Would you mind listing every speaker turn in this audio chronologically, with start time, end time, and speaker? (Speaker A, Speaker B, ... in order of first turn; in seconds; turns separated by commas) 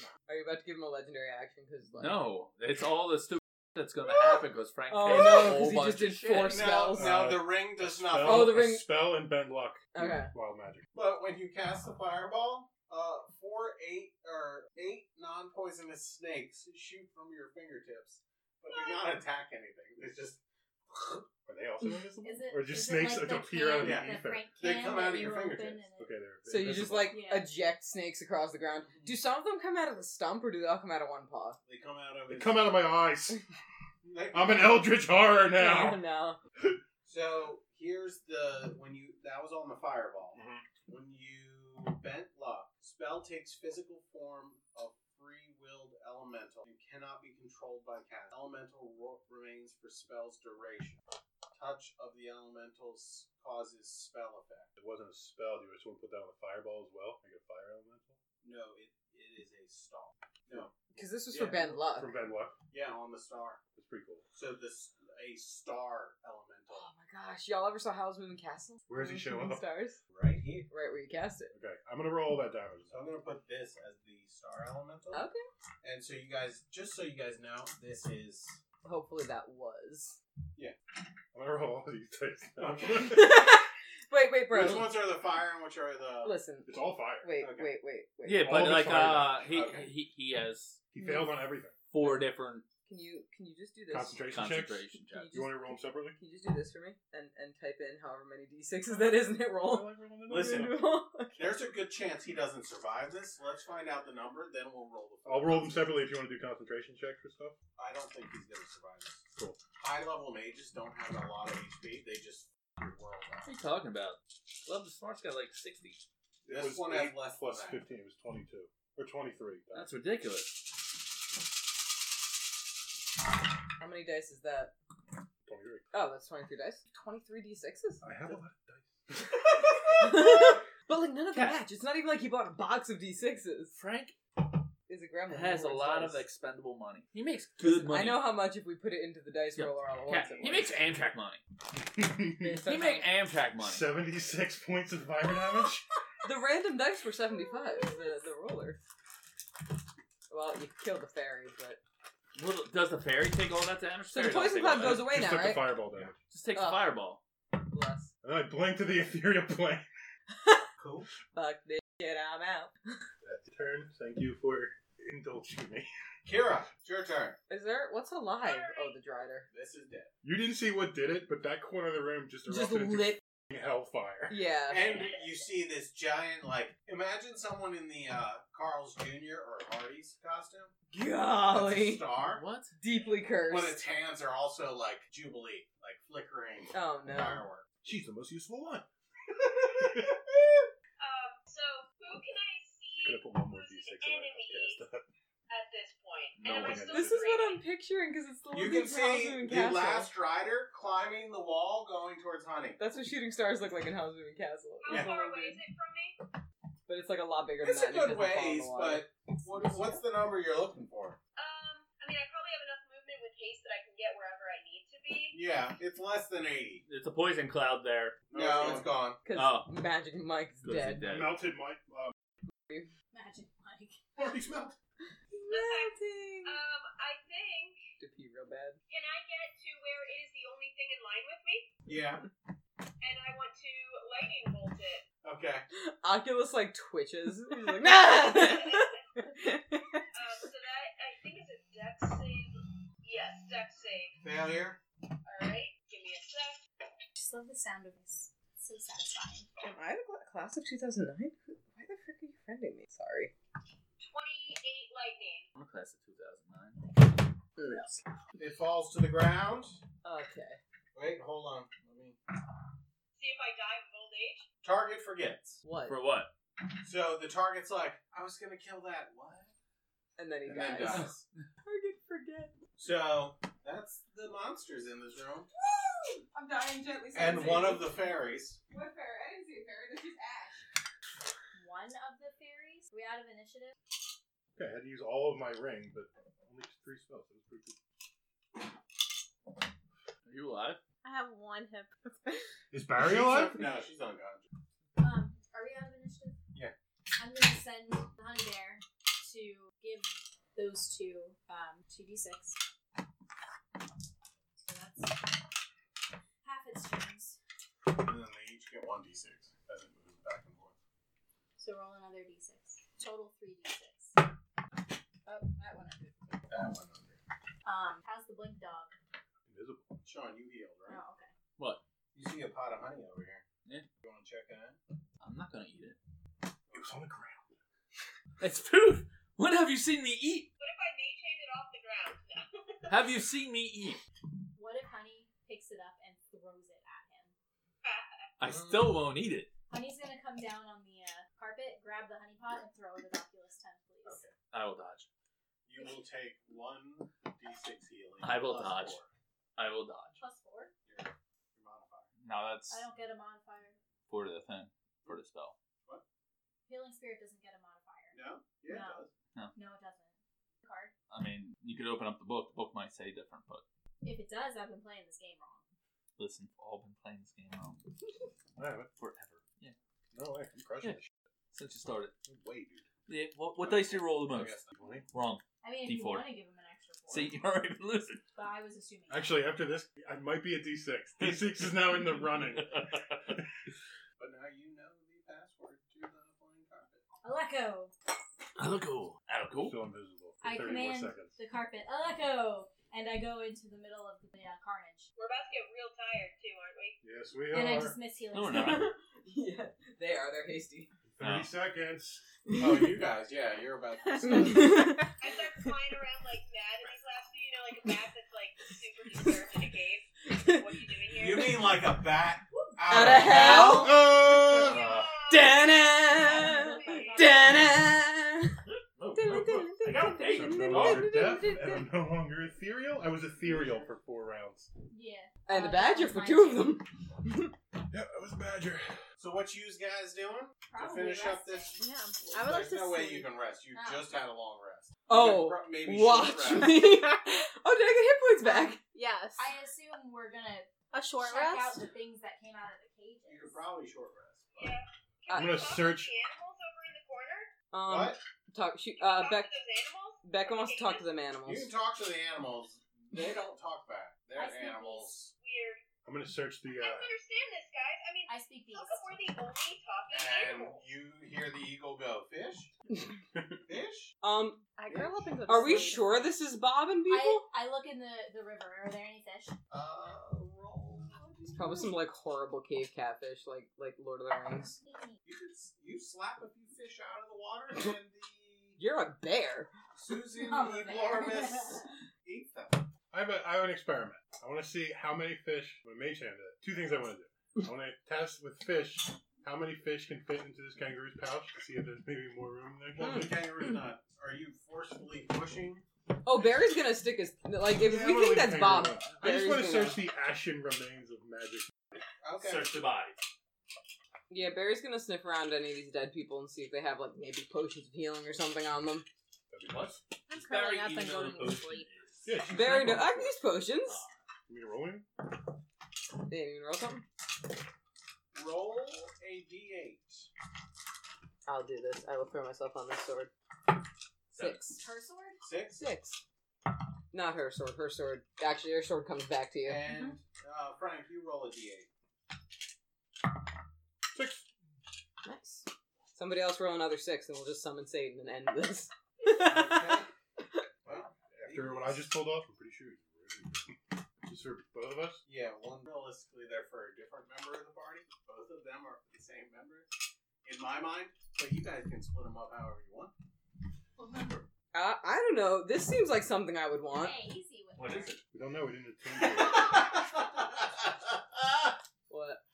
Speaker A: 0.3-2.2, Speaker B: 2.0-6.7, Speaker A: 4.9-7.2, Speaker C: 6.5-8.6, Speaker D: 6.9-10.9, Speaker A: 8.2-8.9, Speaker A: 9.9-10.3, Speaker C: 10.9-21.3, Speaker E: 18.7-19.0, Speaker D: 21.5-24.5, Speaker F: 22.2-26.1, Speaker C: 23.8-25.9, Speaker D: 26.0-27.2, Speaker A: 26.5-31.6, Speaker F: 27.1-27.5, Speaker C: 31.7-32.9, Speaker D: 32.3-33.4, Speaker C: 34.1-34.9, Speaker D: 34.3-36.0, Speaker A: 35.5-36.4, Speaker C: 37.0-51.0, Speaker D: 40.3-40.7, Speaker C: 51.5-54.7, Speaker D: 54.8-58.2, Speaker C: 58.4-60.7, Speaker A: 61.0-62.1, Speaker C: 61.3-61.7, Speaker D: 61.3-62.6, Speaker C: 62.7-63.6, Speaker D: 63.8-64.3, Speaker C: 64.3-66.9, Speaker A: 66.7-70.0, Speaker D: 68.9-69.7, Speaker C: 70.1-70.7, Speaker A: 70.7-71.5, Speaker D: 71.5-73.1, Speaker C: 72.9-75.3, Speaker A: 75.1-75.4, Speaker C: 75.8-78.6, Speaker A: 78.8-80.2, Speaker D: 81.3-83.4, Speaker C: 82.6-83.2, Speaker A: 83.0-85.0, Speaker C: 84.5-86.3, Speaker A: 86.2-88.7, Speaker D: 86.7-87.3, Speaker C: 87.4-87.7, Speaker B: 88.3-90.8, Speaker D: 88.4-89.5, Speaker C: 89.5-89.9, Speaker D: 90.9-91.8, Speaker B: 91.9-92.7, Speaker A: 92.9-94.2, Speaker D: 93.9-96.2, Speaker B: 94.3-95.5, Speaker A: 95.1-101.5, Speaker D: 98.9-100.8, Speaker C: 100.3-106.0, Speaker D: 105.2-107.6, Speaker C: 107.8-109.3, Speaker D: 109.4-109.6, Speaker C: 109.8-113.6, Speaker B: 113.5-116.0, Speaker D: 116.5-119.9, Speaker C: 116.5-117.8, Speaker B: 119.7-120.8, Speaker A: 123.8-124.7, Speaker D: 125.5-125.8, Speaker A: 125.9-128.4, Speaker D: 128.0-130.4, Speaker A: 129.9-133.7, Speaker B: 131.3-131.6, Speaker B: 133.8-134.2, Speaker A: 134.9-136.2, Speaker B: 135.3-138.3, Speaker A: 137.7-140.8, Speaker B: 139.6-141.4, Speaker D: 141.8-142.6, Speaker A: 142.4-143.1, Speaker B: 142.6-143.9, Speaker D: 143.6-145.9, Speaker A: 146.2-148.8, Speaker A: 150.3-151.8, Speaker B: 152.3-155.1, Speaker A: 154.1-155.8, Speaker D: 154.8-156.2, Speaker B: 156.3-157.2, Speaker A: 156.5-156.9, Speaker A: 157.7-158.1, Speaker D: 158.2-159.9, Speaker A: 160.4-160.7, Speaker C: 160.8-161.1, Speaker A: 161.3-162.7, Speaker D: 163.2-165.9, Speaker C: 166.3-167.4, Speaker A: 167.5-169.5, Speaker E: 168.4-169.0, Speaker C: 169.5-170.1, Speaker D: 170.2-174.4, Speaker A: 172.5-173.2, Speaker A: 174.3-175.0, Speaker C: 174.7-180.8, Speaker A: 180.9-182.1, Speaker C: 181.5-182.4, Speaker B: 182.2-182.8, Speaker A: 182.8-183.8, Speaker C: 183.4-187.7, Speaker A: 186.7-187.4, Speaker D: 187.8-188.9, Speaker D: 189.6-190.2, Speaker E: 191.0-194.8, Speaker D: 193.0-195.1, Speaker E: 195.5-197.7, Speaker B: 196.4-196.9, Speaker D: 196.4-197.3, Speaker A: 196.8-200.1, Speaker C: 198.5-202.8, Speaker A: 202.8-205.5, Speaker E: 204.8-206.2, Speaker C: 204.9-205.1, Speaker A: 206.9-209.1, Speaker C: 207.6-211.2, Speaker E: 211.4-215.4, Speaker C: 215.3-216.8, Speaker B: 216.9-218.2, Speaker D: 218.3-218.9, Speaker C: 218.3-219.2, Speaker A: 219.2-221.1, Speaker B: 219.3-219.7, Speaker B: 220.6-221.4, Speaker D: 221.0-222.2, Speaker F: 223.1-224.1, Speaker D: 224.2-224.8, Speaker A: 225.3-226.6, Speaker E: 225.5-227.8, Speaker A: 228.0-228.8, Speaker E: 228.9-231.8, Speaker C: 231.9-232.3, Speaker E: 233.0-235.1, Speaker C: 235.2-235.7, Speaker A: 235.7-240.1, Speaker E: 238.0-239.1, Speaker E: 240.1-244.2, Speaker C: 244.2-244.8, Speaker E: 245.2-246.6, Speaker F: 247.2-249.5, Speaker A: 249.6-253.3, Speaker E: 254.0-255.5, Speaker B: 255.6-256.8, Speaker A: 257.6-258.0, Speaker C: 258.4-259.8, Speaker A: 260.0-260.6, Speaker C: 260.9-262.2, Speaker E: 263.2-264.5, Speaker C: 264.6-265.6, Speaker A: 265.6-266.0, Speaker B: 265.9-266.3, Speaker C: 266.8-269.5, Speaker A: 270.2-271.1, Speaker C: 270.4-271.2, Speaker A: 271.6-272.5, Speaker C: 272.8-275.5, Speaker A: 275.6-278.1, Speaker C: 277.1-278.6, Speaker A: 278.7-280.7, Speaker F: 281.5-283.8, Speaker D: 284.6-287.8, Speaker B: 290.3-290.8, Speaker G: 291.0-292.4, Speaker D: 292.7-293.8, Speaker C: 293.0-294.5, Speaker F: 295.0-296.4, Speaker F: 297.2-302.6, Speaker F: 304.6-305.5, Speaker F: 306.4-307.4, Speaker C: 307.9-310.8, Speaker F: 311.6-314.2, Speaker F: 315.3-316.4, Speaker C: 316.5-317.2, Speaker F: 317.6-318.9, Speaker D: 319.4-320.0, Speaker C: 320.0-321.0, Speaker F: 320.9-321.3, Speaker B: 321.6-321.8, Speaker C: 322.1-323.4, Speaker C: 324.0-324.8, Speaker B: 325.2-326.0, Speaker D: 326.7-327.6, Speaker B: 328.4-330.5, Speaker E: 330.6-333.2, Speaker B: 332.9-334.0, Speaker F: 334.6-337.3, Speaker E: 337.8-338.2, Speaker B: 338.4-339.5, Speaker F: 339.7-344.2, Speaker C: 344.1-344.3, Speaker B: 344.5-345.1, Speaker C: 345.7-349.1, Speaker B: 348.2-349.0, Speaker B: 349.6-350.2, Speaker F: 350.2-350.7, Speaker C: 350.9-352.1, Speaker B: 352.2-352.9, Speaker F: 352.7-353.8, Speaker B: 354.1-355.6, Speaker F: 356.7-359.0, Speaker C: 358.1-359.1, Speaker F: 359.5-360.9, Speaker B: 361.1-363.6, Speaker F: 364.0-365.7, Speaker B: 366.2-367.8, Speaker D: 368.6-368.9, Speaker B: 369.0-369.8, Speaker D: 370.1-371.1, Speaker B: 371.5-372.1, Speaker D: 372.3-372.9, Speaker B: 373.1-374.6, Speaker C: 373.6-375.0, Speaker D: 374.8-375.1, Speaker B: 375.1-376.3, Speaker F: 375.6-377.4, Speaker B: 377.1-378.2, Speaker F: 378.4-379.3, Speaker D: 379.1-383.4, Speaker B: 381.2-383.4, Speaker C: 384.2-387.0, Speaker F: 387.2-387.9, Speaker B: 388.6-389.8, Speaker D: 389.6-391.4, Speaker F: 390.4-395.1, Speaker E: 395.2-397.0, Speaker D: 397.0-398.0, Speaker F: 397.5-398.9, Speaker B: 398.3-398.9, Speaker A: 398.5-400.9, Speaker D: 401.1-402.2, Speaker B: 401.2-401.5, Speaker A: 402.5-402.9, Speaker C: 402.6-405.0, Speaker A: 404.2-405.1, Speaker E: 405.1-411.7, Speaker A: 410.3-410.7, Speaker C: 411.1-414.1, Speaker A: 412.9-414.1, Speaker D: 413.4-414.8, Speaker B: 414.5-415.2, Speaker E: 414.5-417.6, Speaker A: 415.3-418.6, Speaker F: 416.1-417.8, Speaker B: 418.7-421.1, Speaker A: 419.1-421.9, Speaker D: 420.3-424.7, Speaker C: 423.4-423.9, Speaker F: 424.9-426.8, Speaker A: 425.5-427.5, Speaker D: 427.9-429.0, Speaker C: 429.2-431.8, Speaker F: 430.7-431.8, Speaker G: 431.8-433.3, Speaker C: 432.3-436.8, Speaker F: 433.7-434.1, Speaker A: 435.1-438.8, Speaker G: 438.4-439.6, Speaker F: 439.4-443.6, Speaker G: 440.9-441.9, Speaker C: 443.2-444.8, Speaker E: 444.6-447.5, Speaker A: 445.3-445.6, Speaker D: 445.3-446.1, Speaker A: 447.7-449.5, Speaker C: 447.9-448.2, Speaker E: 449.0-451.1, Speaker A: 450.2-451.7, Speaker C: 451.4-455.3, Speaker F: 454.4-455.2, Speaker E: 455.3-455.8, Speaker D: 456.1-457.1, Speaker E: 456.8-460.8, Speaker F: 458.3-459.1, Speaker C: 460.1-462.7, Speaker C: 463.7-464.2, Speaker A: 464.2-467.4, Speaker G: 464.8-466.3, Speaker F: 467.1-469.6, Speaker C: 469.7-471.9, Speaker A: 471.5-474.8, Speaker F: 474.8-475.2, Speaker C: 475.2-478.8, Speaker A: 478.8-479.7, Speaker C: 479.9-482.9, Speaker F: 480.3-481.9, Speaker D: 483.1-493.4, Speaker C: 492.9-495.9, Speaker A: 493.0-493.3, Speaker A: 496.2-500.0, Speaker D: 497.8-502.0, Speaker C: 502.2-502.8, Speaker B: 502.4-503.2, Speaker A: 504.3-509.1, Speaker D: 509.5-510.0, Speaker B: 509.7-512.3, Speaker G: 510.3-511.9, Speaker D: 512.2-513.4, Speaker A: 512.5-514.0, Speaker B: 513.9-514.2, Speaker D: 514.5-515.1, Speaker A: 516.3-517.0, Speaker C: 518.3-520.3, Speaker A: 521.5-523.3, Speaker B: 524.3-524.7, Speaker A: 524.3-524.8, Speaker F: 524.8-525.4, Speaker C: 525.4-525.9, Speaker A: 525.8-526.2, Speaker A: 527.1-529.9, Speaker C: 529.6-531.9, Speaker G: 529.9-530.1, Speaker D: 534.1-534.5, Speaker A: 535.2-540.0, Speaker C: 539.3-540.1, Speaker C: 540.9-542.0, Speaker D: 541.3-545.2, Speaker C: 545.3-549.9, Speaker C: 550.4-553.1, Speaker B: 554.0-554.5, Speaker A: 554.7-557.2, Speaker F: 556.9-558.2, Speaker B: 557.8-558.2, Speaker D: 558.3-559.9, Speaker C: 559.1-561.8, Speaker A: 562.1-562.4